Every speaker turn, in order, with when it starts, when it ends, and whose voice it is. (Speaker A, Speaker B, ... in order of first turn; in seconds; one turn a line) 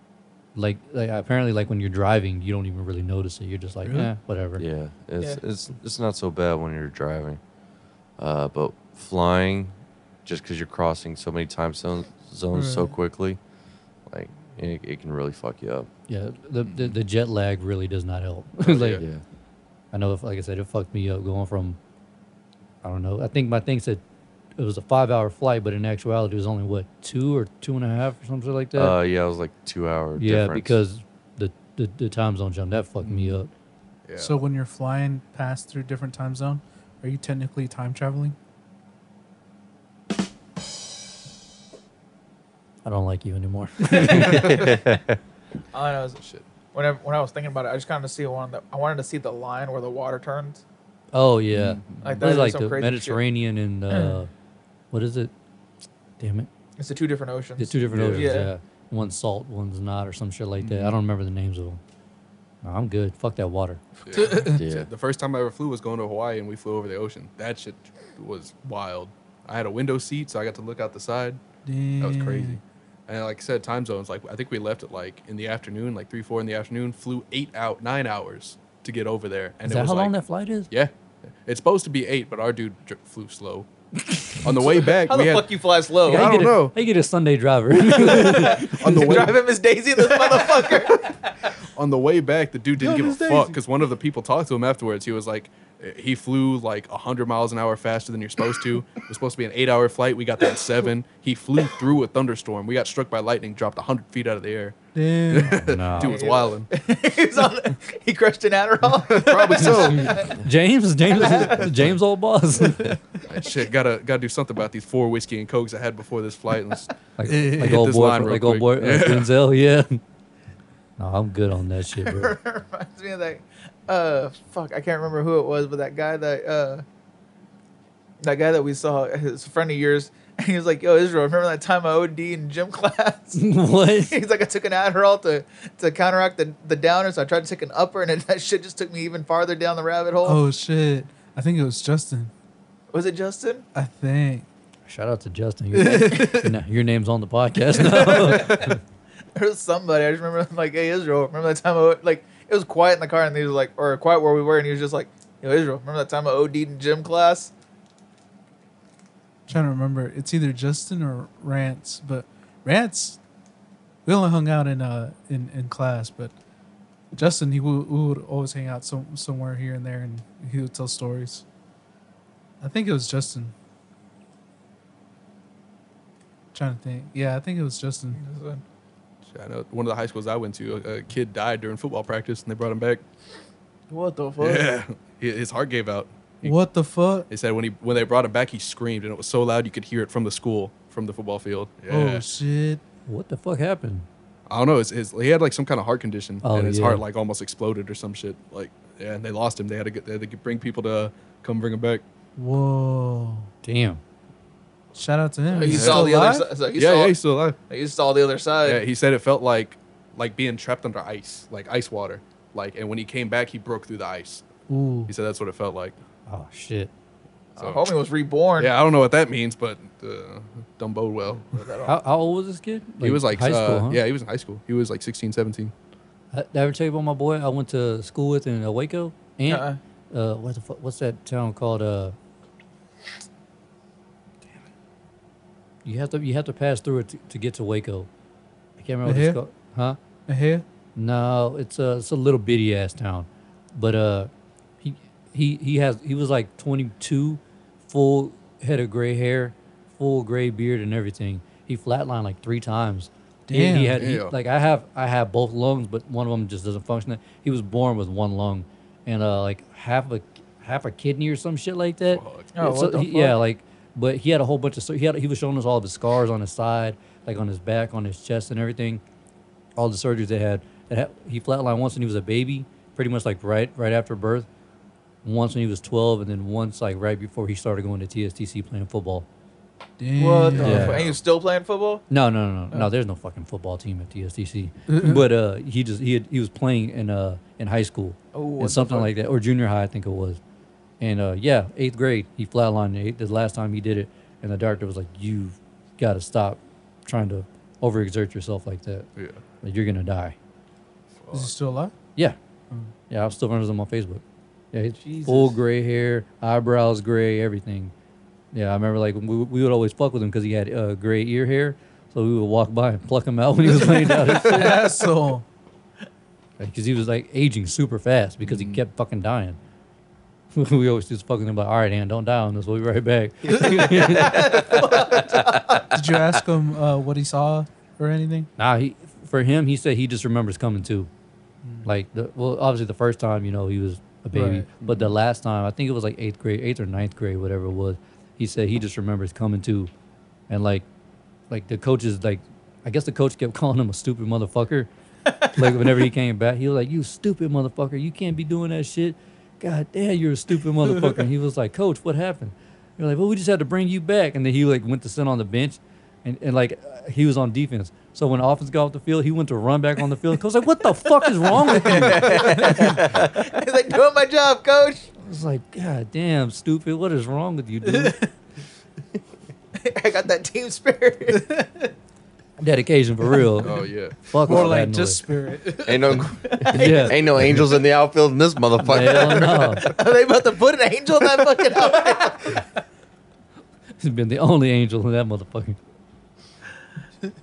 Speaker A: 0.5-4.6
Speaker B: 3.8-4.1
Speaker C: 4.6-7.4
Speaker C: 8.2-9.7
Speaker C: 10.2-13.4
Speaker B: 12.5-12.9
Speaker C: 14.1-15.9
Speaker A: 16.1-19.0
Speaker D: 16.6-16.9
Speaker D: 18.6-19.0
Speaker C: 18.9-19.2
Speaker A: 19.9-21.8
Speaker A: 22.8-24.0
Speaker A: 24.6-29.0
Speaker C: 28.7-30.8
Speaker A: 30.2-33.5
Speaker D: 33.0-33.4
Speaker D: 34.1-34.4
Speaker B: 34.2-38.4
Speaker A: 42.8-44.6
Speaker D: 43.9-44.8
Speaker C: 44.0-45.2
Speaker E: 45.7-46.2
Speaker D: 46.2-46.4
Speaker E: 46.7-50.6
Speaker A: 51.1-54.3
Speaker D: 51.5-52.2
Speaker E: 52.0-53.2
Speaker E: 53.9-54.2
Speaker A: 54.9-55.3
Speaker A: 56.2-56.5
Speaker E: 56.8-58.5
Speaker A: 57.6-61.8
Speaker D: 57.9-58.3
Speaker D: 60.6-61.0
Speaker A: 62.6-63.8
Speaker D: 64.1-71.4
Speaker B: 64.1-64.6
Speaker C: 64.5-64.9
Speaker B: 71.7-72.6
Speaker D: 72.0-80.2
Speaker A: 79.6-80.7
Speaker D: 81.4-83.7
Speaker A: 84.1-84.5
Speaker D: 84.4-85.5
Speaker E: 84.9-86.6
Speaker D: 86.0-86.7
Speaker A: 86.1-89.3
Speaker E: 87.8-91.5
Speaker D: 88.0-89.4
Speaker D: 91.6-104.8
Speaker B: 92.8-93.6
Speaker B: 104.9-105.6
Speaker D: 105.3-106.7
Speaker A: 105.4-106.2
Speaker E: 105.9-110.4
Speaker D: 108.9-110.3
Speaker A: 109.8-113.0
Speaker E: 111.1-111.8
Speaker D: 113.2-116.9
Speaker A: 117.2-120.0
Speaker B: 117.2-117.7
Speaker D: 117.5-119.3
Speaker A: 121.0-122.3
Speaker E: 122.0-126.8
Speaker E: 128.2-140.4
Speaker A: 133.3-134.2
Speaker B: 140.2-142.3
Speaker E: 142.9-143.7
Speaker B: 143.7-144.5
Speaker A: 144.9-148.8
Speaker B: 145.7-146.5
Speaker E: 147.7-148.8
Speaker E: 149.3-157.5
Speaker B: 159.5-163.2
Speaker B: 164.0-166.3
Speaker B: 167.1-171.4
Speaker B: 172.6-173.5
Speaker B: 176.5-178.2
Speaker E: 178.1-178.6
Speaker D: 179.3-183.0
Speaker E: 183.9-184.7
Speaker D: 184.4-186.6
Speaker B: 186.4-187.3
Speaker D: 187.3-192.2
Speaker B: 191.9-192.8
Speaker A: 193.1-194.1
Speaker D: 194.5-202.0
Speaker A: 196.4-197.0
Speaker B: 202.4-203.5
Speaker A: 203.6-204.0
Speaker B: 204.9-206.5
Speaker E: 205.5-208.8
Speaker D: 205.6-206.1
Speaker D: 206.7-207.6
Speaker D: 208.6-214.4
Speaker B: 214.7-215.1
Speaker D: 215.1-215.9
Speaker A: 216.3-216.9
Speaker D: 217.6-217.9
Speaker E: 217.6-218.7
Speaker D: 218.6-221.7
Speaker E: 221.5-222.0
Speaker A: 221.8-224.0
Speaker D: 223.0-225.7
Speaker A: 226.3-232.2
Speaker E: 229.5-229.8
Speaker A: 235.8-238.1
Speaker A: 238.8-240.0
Speaker B: 239.0-239.4
Speaker B: 240.3-240.6
Speaker A: 240.9-244.3
Speaker A: 244.8-269.0
Speaker B: 253.5-254.1
Speaker D: 254.0-254.3
Speaker D: 262.1-262.5
Speaker E: 262.5-263.4
Speaker A: 269.8-274.5
Speaker A: 275.2-279.2
Speaker B: 280.0-281.0
Speaker E: 280.1-282.1
Speaker A: 280.6-281.0
Speaker D: 280.6-281.2
Speaker A: 282.1-290.4
Speaker B: 284.9-285.2
Speaker E: 288.3-289.1
Speaker A: 291.0-299.1
Speaker D: 299.1-299.4
Speaker A: 299.6-300.4
Speaker D: 301.2-301.5
Speaker B: 301.3-301.9
Speaker A: 303.1-307.9
Speaker E: 305.0-305.6
Speaker A: 308.5-314.8
Speaker B: 313.8-315.4
Speaker E: 314.5-314.9
Speaker A: 316.6-319.6
Speaker D: 318.4-318.8
Speaker A: 320.5-324.6
Speaker E: 323.6-326.0
Speaker C: 324.3-325.8
Speaker B: 325.9-328.5
Speaker A: 328.6-331.1
Speaker A: 331.8-339.9
Speaker B: 334.3-334.7
Speaker D: 334.8-335.1
Speaker A: 340.5-340.9
Speaker A: 341.5-344.9
Speaker E: 345.3-345.8
Speaker A: 345.5-362.8
Speaker E: 361.4-365.1
Speaker A: 365.2-368.2
Speaker B: 367.8-368.3
Speaker E: 369.8-371.5
Speaker B: 371.4-371.8
Speaker A: 372.6-375.2
Speaker D: 373.6-374.2
Speaker B: 374.4-376.7
Speaker C: 375.8-379.9
Speaker A: 376.7-377.6
Speaker E: 376.7-377.2
Speaker A: 378.8-379.9
Speaker E: 379.4-382.6
Speaker A: 384.0-385.8